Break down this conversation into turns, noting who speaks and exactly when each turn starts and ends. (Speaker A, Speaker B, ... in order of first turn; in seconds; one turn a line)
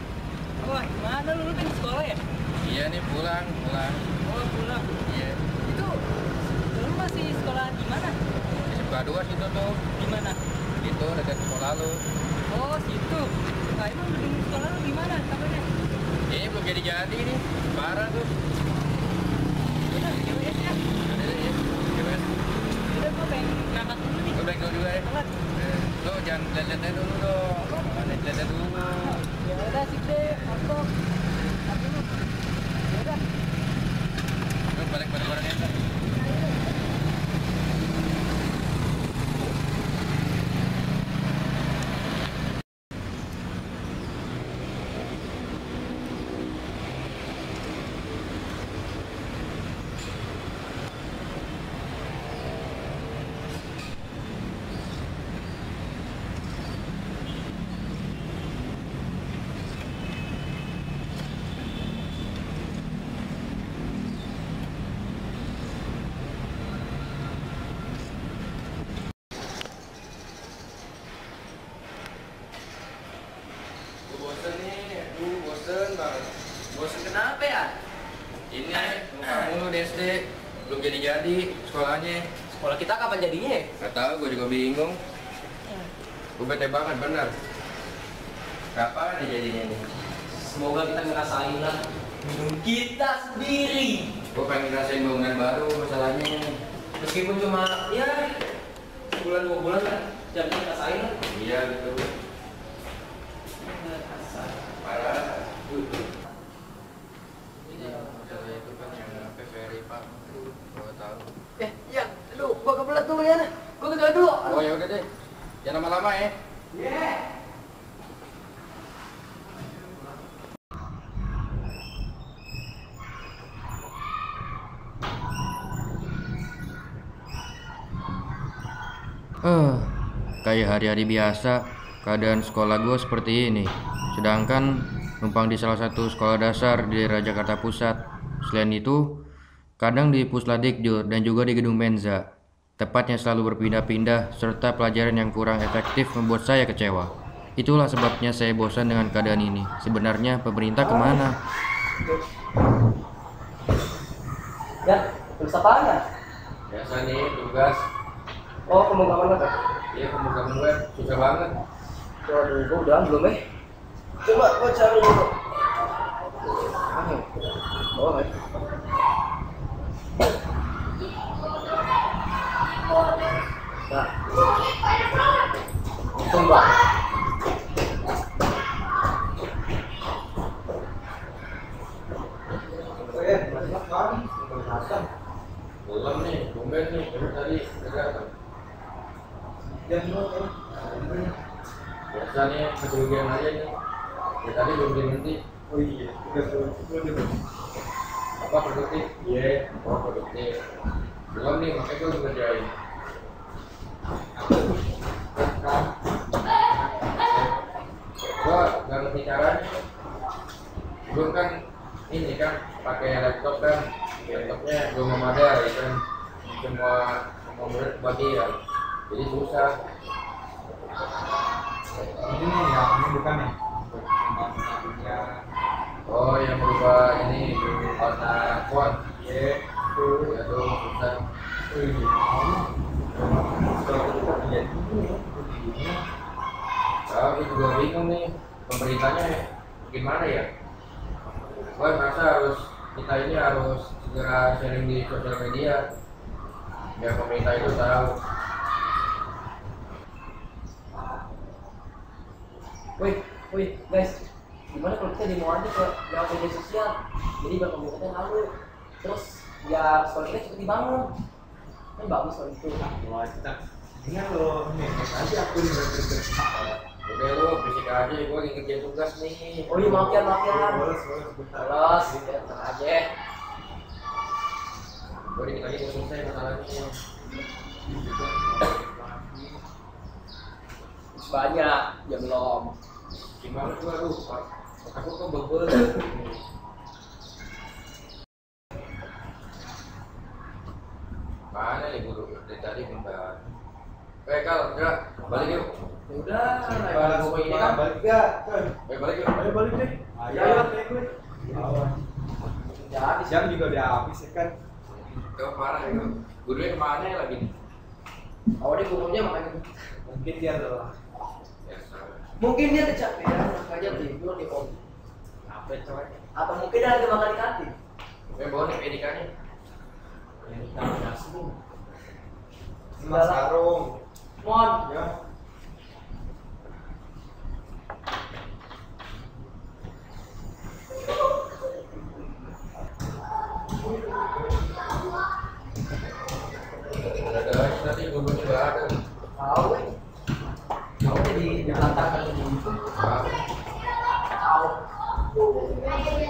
Speaker A: 0.7-2.1
Speaker B: 2.6-4.1
Speaker A: 4.4-4.8
Speaker B: 5.0-5.5
Speaker A: 6.7-8.2
Speaker B: 8.7-10.1
Speaker A: 10.1-10.4
Speaker B: 10.8-12.0
Speaker A: 12.5-15.7
Speaker B: 16.3-18.3
Speaker A: 19.9-20.8
Speaker B: 21.0-22.3
Speaker A: 22.9-24.3
Speaker B: 24.3-29.2
Speaker A: 29.5-30.8
Speaker B: 30.3-30.7
Speaker B: 34.7-35.7
Speaker B: 74.1-76.3
Speaker C: 76.7-77.7
Speaker B: 78.5-82.3
Speaker C: 78.8-79.5
Speaker C: 82.5-83.7
Speaker B: 83.8-85.0
Speaker B: 86.4-87.3
Speaker B: 88.7-89.8
Speaker C: 90.3-94.1
Speaker B: 94.3-96.6
Speaker C: 97.0-98.2
Speaker C: 99.1-101.1
Speaker B: 101.3-102.1
Speaker C: 103.6-104.6
Speaker B: 104.8-105.8
Speaker B: 107.7-111.3
Speaker C: 111.6-114.6
Speaker B: 114.4-115.1
Speaker B: 115.6-116.3
Speaker B: 129.4-139.2
Speaker B: 139.8-142.3
Speaker B: 142.8-151.3
Speaker C: 150.8-151.2
Speaker C: 154.8-156.0
Speaker B: 156.7-157.8
Speaker C: 158.7-159.5
Speaker B: 159.9-161.5
Speaker C: 162.2-163.4
Speaker C: 164.2-165.3
Speaker C: 166.9-167.3
Speaker C: 167.9-168.3
Speaker C: 176.2-176.7
Speaker D: 183.0-185.1
Speaker C: 183.1-183.7
Speaker B: 185.8-188.3
Speaker D: 189.7-191.3
Speaker B: 192.1-193.7
Speaker B: 194.4-195.4
Speaker D: 195.7-197.4
Speaker B: 198.4-199.1
Speaker D: 199.2-199.7
Speaker B: 199.8-200.5
Speaker B: 201.3-202.7
Speaker D: 204.3-204.8
Speaker D: 205.3-205.9
Speaker B: 208.4-209.8
Speaker B: 211.1-211.5
Speaker B: 212.1-218.5
Speaker B: 219.1-219.7
Speaker D: 222.2-225.4
Speaker B: 226.1-229.0
Speaker D: 229.1-230.4
Speaker B: 230.3-231.2
Speaker D: 231.7-232.7
Speaker D: 233.4-236.0
Speaker B: 237.1-240.4
Speaker B: 241.7-245.8
Speaker B: 247.0-248.1
Speaker C: 253.0-261.1
Speaker C: 262.0-262.8
Speaker D: 262.8-266.4
Speaker B: 267.1-269.7
Speaker C: 269.7-270.8
Speaker D: 269.8-272.3
Speaker C: 271.5-273.1
Speaker B: 275.3-276.9
Speaker D: 278.3-279.4
Speaker C: 281.1-282.7
Speaker B: 283.4-286.1
Speaker B: 291.5-293.4
Speaker B: 294.2-295.6
Speaker C: 295.3-297.0
Speaker D: 296.5-298.7
Speaker B: 296.8-297.8
Speaker B: 298.9-299.5
Speaker D: 299.3-302.0
Speaker C: 300.3-301.1
Speaker C: 302.7-303.5
Speaker D: 303.2-304.6
Speaker B: 305.0-307.5
Speaker C: 308.6-309.7
Speaker D: 310.1-310.9
Speaker B: 311.6-312.2
Speaker C: 312.4-314.8
Speaker C: 315.6-317.7
Speaker B: 318.3-319.3
Speaker D: 320.5-321.5
Speaker C: 320.8-321.4
Speaker D: 323.0-324.0
Speaker C: 323.0-323.4
Speaker C: 324.4-324.9
Speaker D: 324.8-325.1
Speaker B: 337.1-338.9
Speaker C: 339.4-339.9
Speaker C: 341.0-342.8
Speaker B: 342.9-343.4
Speaker C: 344.4-344.8